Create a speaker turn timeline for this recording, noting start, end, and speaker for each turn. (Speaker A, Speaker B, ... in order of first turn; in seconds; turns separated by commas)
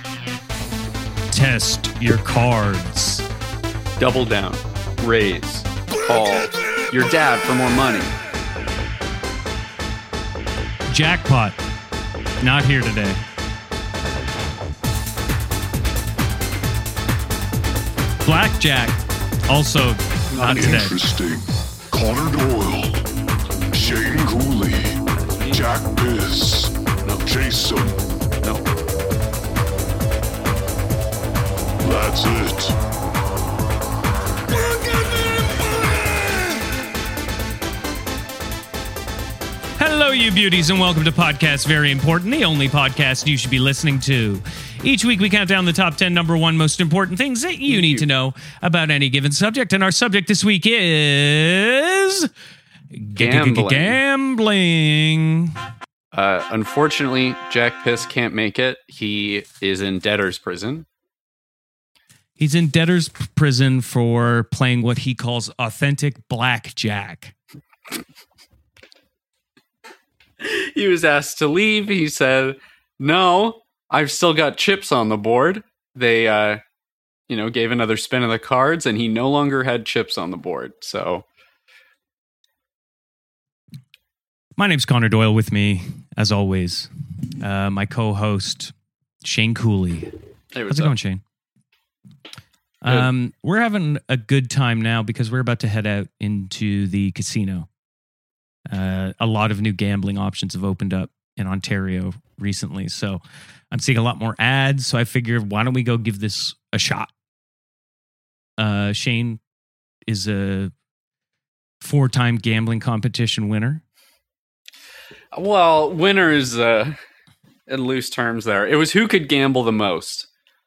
Speaker A: 1.3-3.2, Speaker B: 4.0-8.1, Speaker A: 10.9-11.6, Speaker A: 12.4-13.2, Speaker A: 18.2-21.0, Speaker B: 20.3-20.8, Speaker C: 20.4-23.0, Speaker C: 23.7-28.0, Speaker C: 31.8-32.7, Speaker C: 34.8-36.5, Speaker A: 39.8-52.3, Speaker B: 47.7-48.0, Speaker A: 52.9-55.5, Speaker B: 53.2-54.0, Speaker B: 56.1-60.9, Speaker A: 62.4-67.3, Speaker B: 70.4-76.6, Speaker B: 77.3-81.2, Speaker A: 84.6-86.9, Speaker A: 87.4-88.7, Speaker A: 89.2-90.1, Speaker B: 90.5-90.9, Speaker A: 90.7-91.2, Speaker A: 92.8-97.7, Speaker A: 98.7-107.1, Speaker A: 108.6-109.4, Speaker A: 110.1-110.7, Speaker A: 111.8-113.8, Speaker B: 115.3-117.0, Speaker B: 117.7-120.3